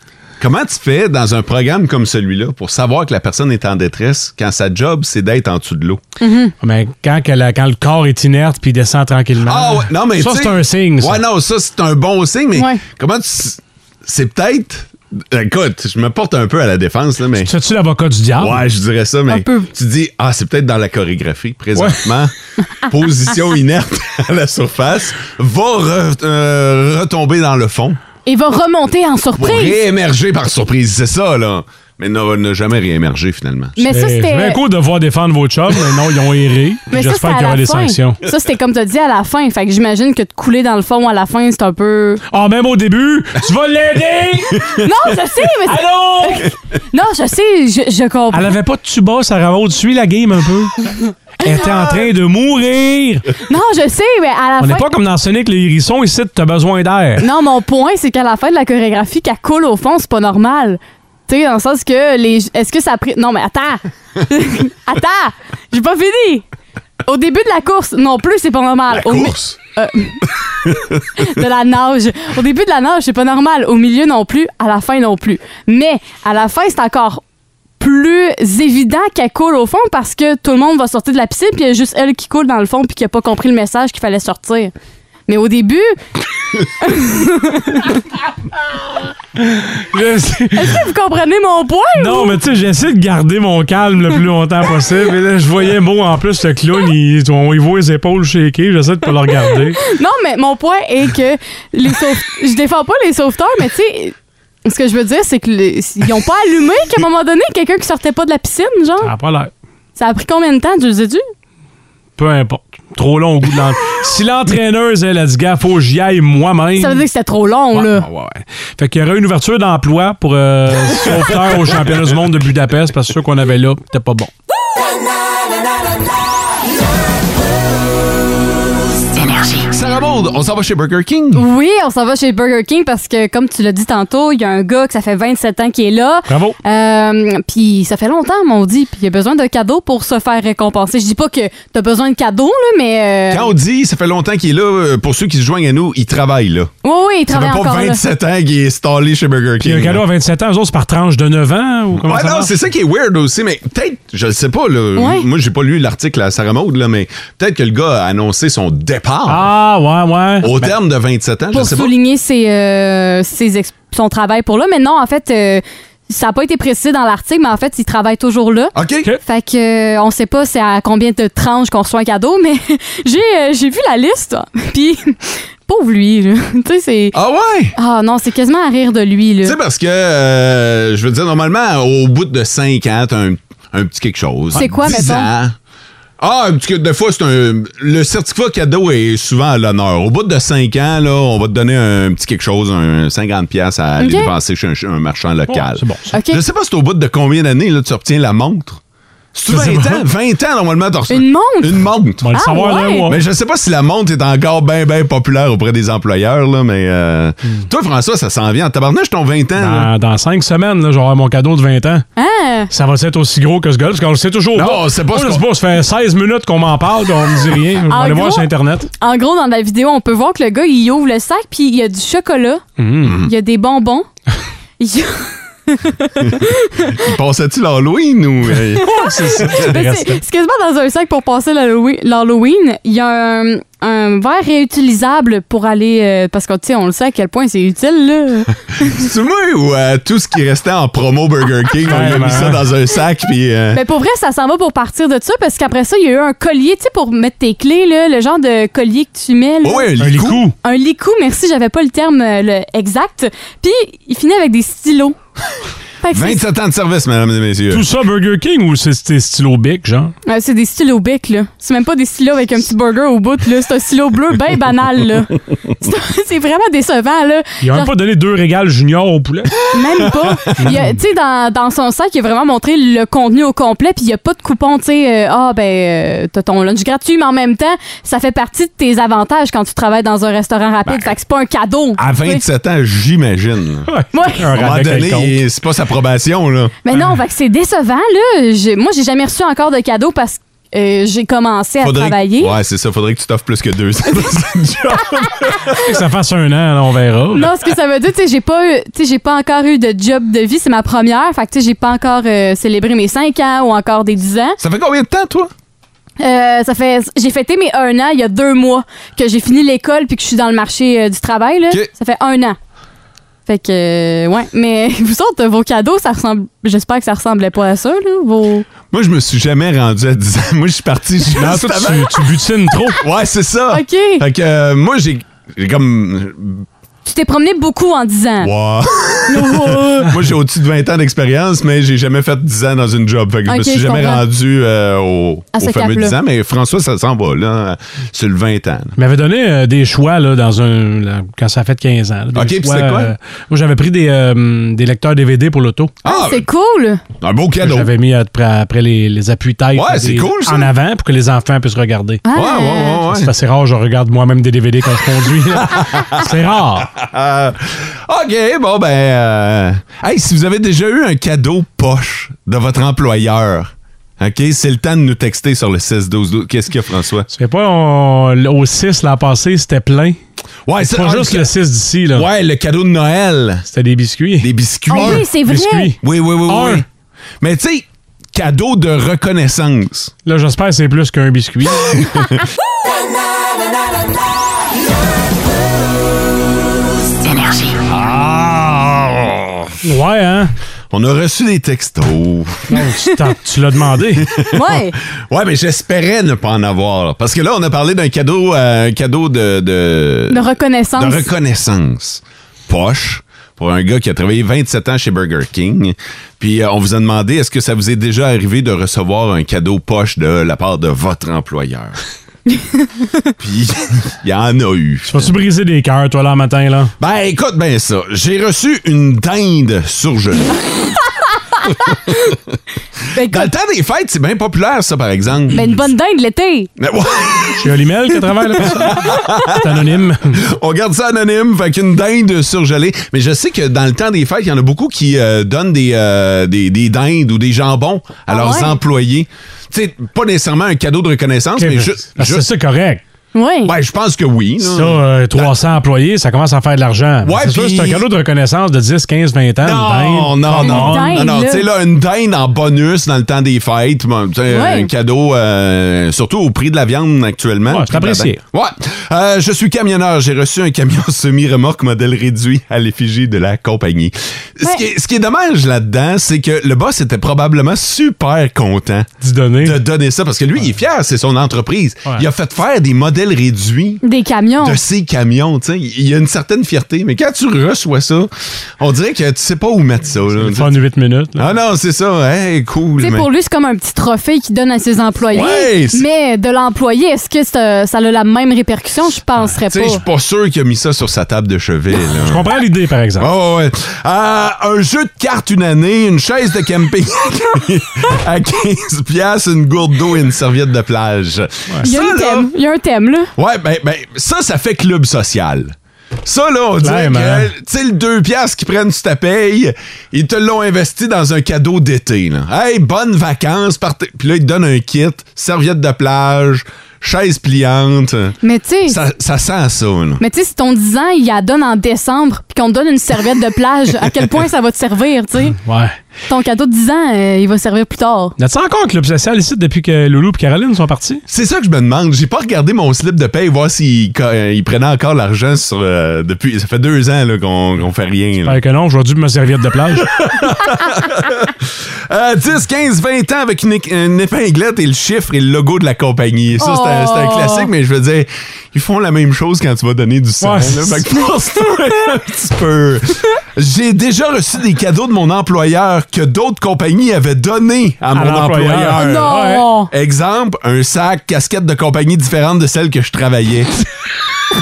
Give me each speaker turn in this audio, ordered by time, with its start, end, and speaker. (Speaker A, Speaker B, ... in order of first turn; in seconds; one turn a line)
Speaker A: 0.4-6.0
Speaker B: 6.2-6.5
Speaker C: 6.6-11.2
Speaker A: 9.4-17.5
Speaker B: 12.5-12.8
Speaker C: 17.4-18.6
Speaker A: 18.4-28.0
Speaker B: 19.3-19.7
Speaker C: 21.8-22.0
Speaker B: 28.2-29.8
Speaker A: 29.4-33.8
Speaker B: 33.8-34.6
Speaker C: 33.9-38.2
Speaker B: 36.9-42.2
Speaker C: 42.3-44.7
Speaker B: 44.8-48.5
Speaker C: 45.6-46.5
Speaker C: 48.3-50.9
Speaker C: 51.4-53.3
Speaker B: 53.5-54.9
Speaker C: 54.6-57.2
Speaker B: 57.2-66.4
Speaker B: 67.0-70.3
Speaker A: 68.9-69.6
Speaker A: 70.7-70.9
Speaker B: 71.2-77.2
Speaker B: 77.8-84.7
Speaker B: 85.3-86.0
Speaker B: 86.8-88.0
Speaker C: 89.4-90.8
Speaker B: 90.5-92.4
Speaker C: 92.0-99.8
Speaker B: 99.8-104.1
Speaker B: 104.6-109.1
Speaker C: 109.0-109.5
Speaker B: 110.0-111.2
Speaker C: 112.2-117.0
Speaker B: 116.8-118.1
Speaker C: 117.7-124.3
Speaker A: 129.5-131.5
Speaker B: 131.3-143.5
Speaker C: 136.3-136.6
Speaker A: 143.3-146.7
Speaker B: 146.8-148.0
Speaker A: 147.3-150.0
Speaker C: 149.6-152.5
Speaker A: 152.0-159.5
Speaker B: 155.0-155.2
Speaker C: 159.3-160.7
Speaker A: 160.4-161.9
Speaker B: 161.5-168.7
Speaker A: 168.8-169.1
Speaker B: 169.2-177.2
Speaker A: 177.1-177.8
Speaker B: 177.8-179.6
Speaker A: 179.4-185.5
Speaker B: 184.5-185.3
Speaker A: 186.2-198.8
Speaker B: 194.0-194.3
Speaker C: 195.5-196.1
Speaker B: 196.1-196.4
Speaker A: 199.3-202.3
Speaker C: 199.5-200.0
Speaker B: 201.1-203.1
Speaker C: 202.2-203.2
Speaker A: 203.1-209.9
Speaker C: 209.6-212.0
Speaker B: 212.2-212.7
Speaker C: 212.7-218.9
Speaker A: 214.5-215.4
Speaker B: 217.9-218.5
Speaker B: 219.0-222.6
Speaker C: 222.8-223.2
Speaker A: 223.0-223.3
Speaker B: 223.2-224.1
Speaker B: 224.8-227.0
Speaker A: 226.9-228.9
Speaker B: 228.8-239.0
Speaker C: 228.8-230.2
Speaker A: 238.8-243.8
Speaker C: 241.9-242.6
Speaker B: 243.7-249.9
Speaker A: 249.6-250.4
Speaker C: 250.0-250.5
Speaker B: 250.6-255.2
Speaker B: 256.0-256.4
Speaker A: 256.1-257.9
Speaker C: 257.7-260.1
Speaker B: 260.3-267.9
Speaker C: 267.6-269.5
Speaker B: 269.7-282.4
Speaker C: 270.6-271.0
Speaker A: 280.9-281.1
Speaker A: 282.0-283.9
Speaker C: 283.9-285.4
Speaker B: 284.1-284.5
Speaker A: 284.5-286.8
Speaker B: 286.8-292.5
Speaker A: 291.8-295.8
Speaker C: 295.9-297.5
Speaker B: 297.3-304.6
Speaker A: 304.6-305.5
Speaker B: 306.2-312.6
Speaker B: 313.5-318.7
Speaker A: 318.9-322.3
Speaker C: 321.3-323.0
Speaker A: 323.0-326.7
Speaker B: 323.7-324.2
Speaker B: 327.1-328.5
Speaker A: 328.4-339.0
Speaker B: 329.3-330.1
Speaker B: 333.5-334.2
Speaker B: 335.5-336.1
Speaker C: 339.0-345.9
Speaker A: 342.3-343.1
Speaker A: 346.0-346.5
Speaker B: 346.0-347.0
Speaker A: 347.2-347.9
Speaker C: 347.6-352.2
Speaker A: 349.8-350.7
Speaker B: 352.2-353.0
Speaker A: 352.3-353.3
Speaker C: 353.1-356.9
Speaker A: 355.6-367.3
Speaker C: 367.3-370.2
Speaker A: 370.7-371.5
Speaker C: 370.9-372.3
Speaker A: 372.1-373.7
Speaker C: 373.7-376.8
Speaker A: 374.4-375.2
Speaker B: 374.9-375.9
Speaker A: 376.0-376.9
Speaker A: 377.4-380.1
Speaker C: 380.2-382.1
Speaker A: 381.9-382.4
Speaker A: 387.9-389.7
Speaker C: 389.8-390.5
Speaker A: 390.9-392.8
Speaker C: 392.7-394.3
Speaker A: 394.2-400.4
Speaker B: 394.5-395.0
Speaker B: 400.3-401.3
Speaker A: 401.0-412.0
Speaker A: 413.4-415.3
Speaker C: 415.1-416.9
Speaker A: 417.0-420.5
Speaker A: 421.9-422.4
Speaker B: 423.1-423.5
Speaker A: 423.2-425.7
Speaker B: 425.5-426.7
Speaker A: 426.8-427.7
Speaker C: 427.6-430.4
Speaker A: 428.6-442.4
Speaker B: 438.3-438.8
Speaker C: 441.6-443.0
Speaker B: 443.3-443.7
Speaker A: 443.6-445.5
Speaker C: 444.6-451.3
Speaker A: 447.2-448.1
Speaker A: 449.6-474.0
Speaker B: 450.6-451.6
Speaker B: 454.5-454.9
Speaker C: 457.7-458.4
Speaker C: 469.2-469.8
Speaker B: 474.0-474.8
Speaker A: 474.6-480.8
Speaker C: 480.4-481.5
Speaker A: 481.4-483.3
Speaker B: 483.0-490.0
Speaker A: 485.3-486.0
Speaker A: 489.7-492.5
Speaker C: 492.2-493.3
Speaker A: 493.2-502.5
Speaker B: 501.8-503.3
Speaker A: 503.4-518.3
Speaker C: 506.8-507.5
Speaker B: 518.4-519.0
Speaker A: 518.9-520.2
Speaker B: 520.2-525.6
Speaker C: 525.5-526.0
Speaker B: 526.3-528.3
Speaker C: 528.4-531.2
Speaker A: 531.3-538.6
Speaker C: 538.5-540.1
Speaker A: 540.0-559.4
Speaker B: 546.6-547.7
Speaker C: 550.4-551.0
Speaker C: 558.1-559.7
Speaker B: 559.0-559.9
Speaker A: 559.9-563.9